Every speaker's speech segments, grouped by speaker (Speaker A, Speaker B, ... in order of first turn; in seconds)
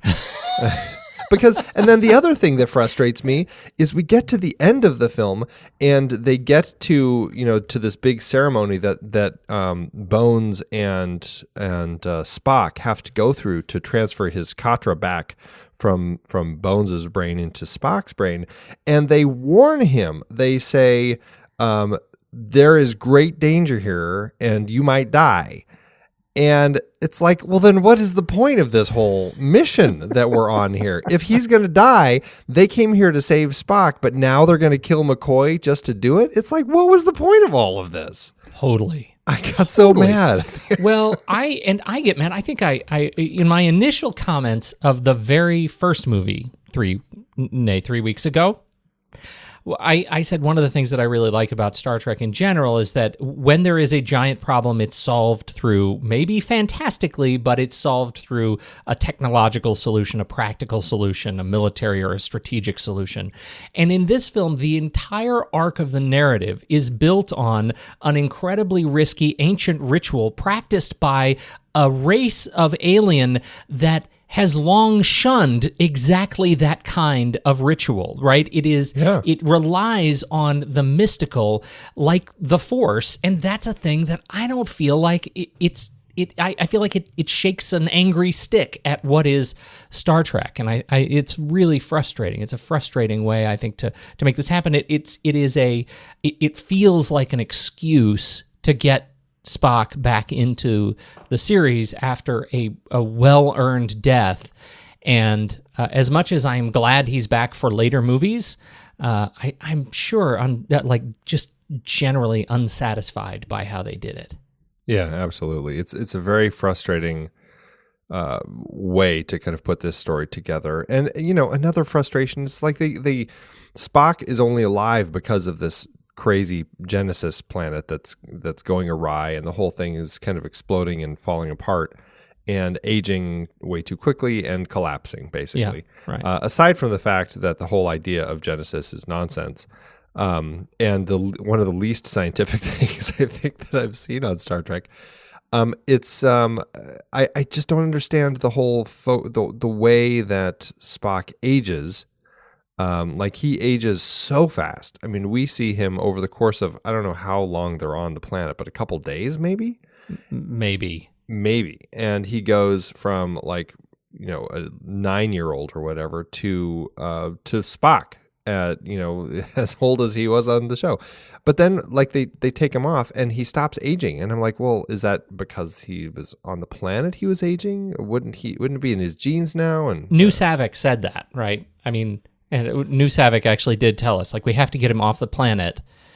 Speaker A: 0.6-25.6, 26.4-38.3, 39.3-40.9, 79.0-79.2, 114.9-117.3, 118.1-131.9, 132.5-144.9, 145.5-152.1, 152.8-159.8, 161.3-180.4
Speaker B: 38.5-39.1, 39.8-40.2, 40.7-48.6, 49.7-104.5, 105.0-114.4, 135.6-136.3, 160.3-161.1, 180.1-185.8